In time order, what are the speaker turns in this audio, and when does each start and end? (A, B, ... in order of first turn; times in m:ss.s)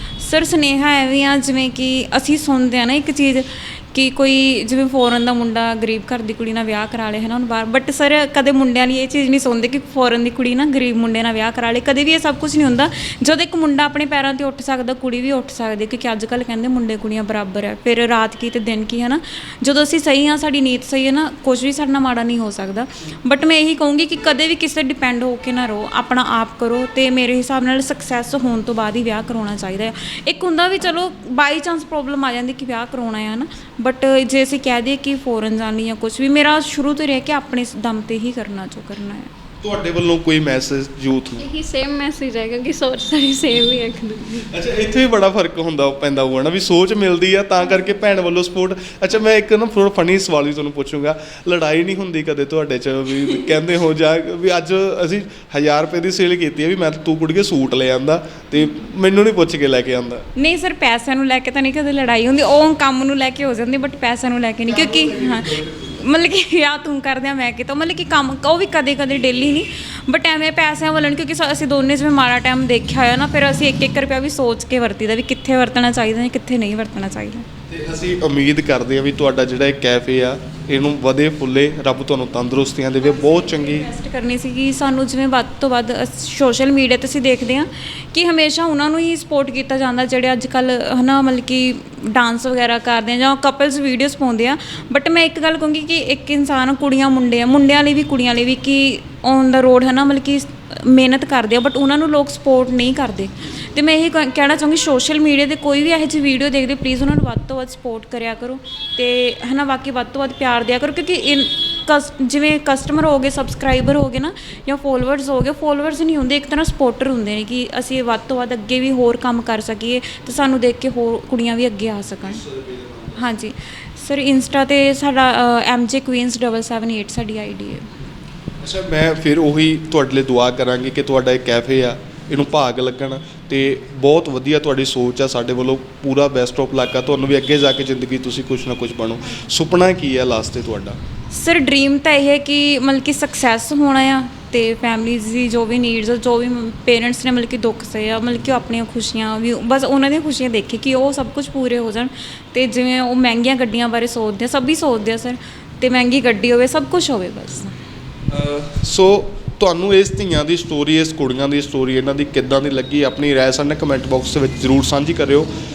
0:00.2-0:39.3 A
0:39.6-0:41.4 B
0:41.4-0:44.5 C
0:44.5-1:00.3 B
1:00.4-1:17.5 A
1:04.7-1:06.0 B
1:17.7-1:23.9 B
1:23.0-2:02.4 A
2:02.2-2:03.4 B
2:03.2-2:07.9 A
2:08.6-2:21.0 B
2:21.3-2:37.8 A
2:38.3-2:45.5 B